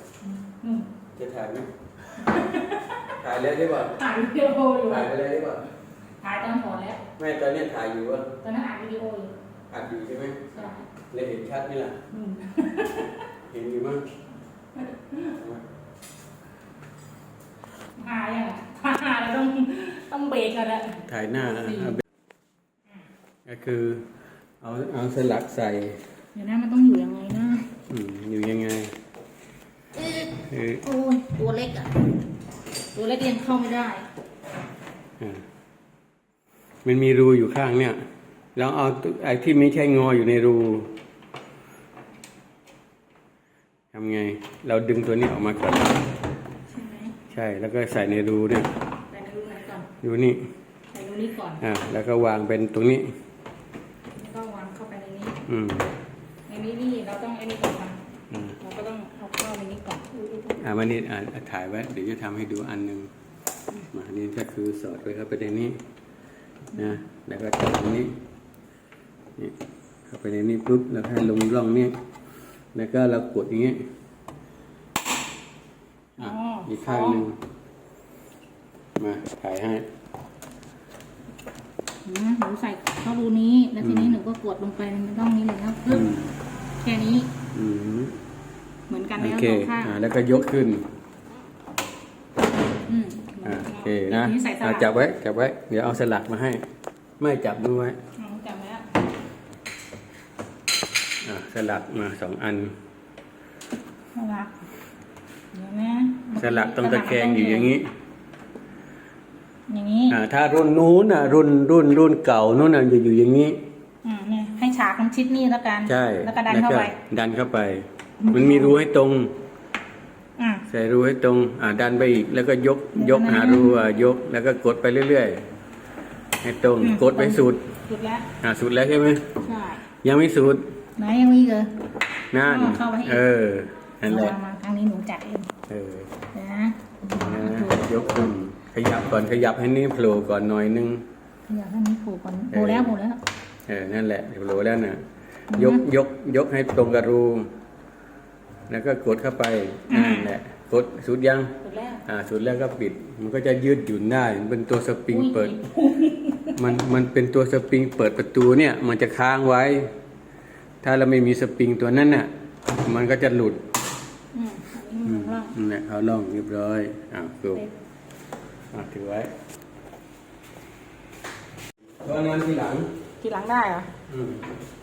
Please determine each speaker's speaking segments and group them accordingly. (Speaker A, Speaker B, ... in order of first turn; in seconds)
Speaker A: 0.2-0.9, 2.1-3.1, 3.9-5.1, 6.2-7.0, 8.4-9.3, 10.5-10.9, 12.1-13.3, 14.8-15.3, 17.9-22.0, 26.3-27.7, 30.0-30.3, 30.8-32.0, 32.9-34.1, 46.7-47.2, 49.1-49.9, 50.9-51.6, 54.1-55.5, 56.5-58.0, 58.6-60.5, 76.2-77.2, 82.0-86.2, 86.8-87.3, 88.9-90.0, 92.8-94.9, 98.2-98.9, 104.1-104.5, 105.5-107.8, 109.7-110.2, 114.0-117.0, 118.2-118.8, 120.4-120.6, 122.9-123.8, 126.8-128.3, 129.4-129.8, 131.0-131.7, 132.4-133.2, 134.0-135.5, 136.3-138.3, 141.5-143.2, 145.5-145.8, 149.9-150.3, 151.6-152.0, 155.1-156.6, 164.3-165.6, 173.2-173.9
Speaker B: 1.1-1.7, 3.2-4.0, 5.0-5.7, 7.2-8.4, 9.7-10.6, 11.1-12.0, 13.5-14.0, 15.3-15.6, 21.1-22.0, 23.4-24.1, 24.6-26.1, 27.9-28.9, 30.4-30.8, 35.2-35.4, 36.8-38.0, 38.5-41.0, 43.9-46.1, 47.3-48.7, 50.0-50.5, 51.6-53.1, 55.5-55.9, 58.3-58.6, 60.5-63.1, 63.9-65.8, 66.7-68.2, 70.1-72.0, 72.7-73.8, 76.2-77.4, 79.0-79.8, 83.8-84.2, 85.9-86.3, 87.5-88.2, 89.2-90.9, 93.4-96.7, 97.2-98.0, 101.2-102.8, 106.4-107.9, 110.1-113.6, 115.9-119.4, 120.7-125.4, 126.4-127.7, 128.4-129.3, 129.9-130.7, 132.3-134.3, 135.7-136.2, 137.2-141.1, 142.5-142.9, 143.7-145.0, 145.6-147.5, 148.7-155.6, 156.6-159.9, 160.8-163.6, 165.1-167.6, 168.7-169.3, 172.0-172.9, 174.1-174.5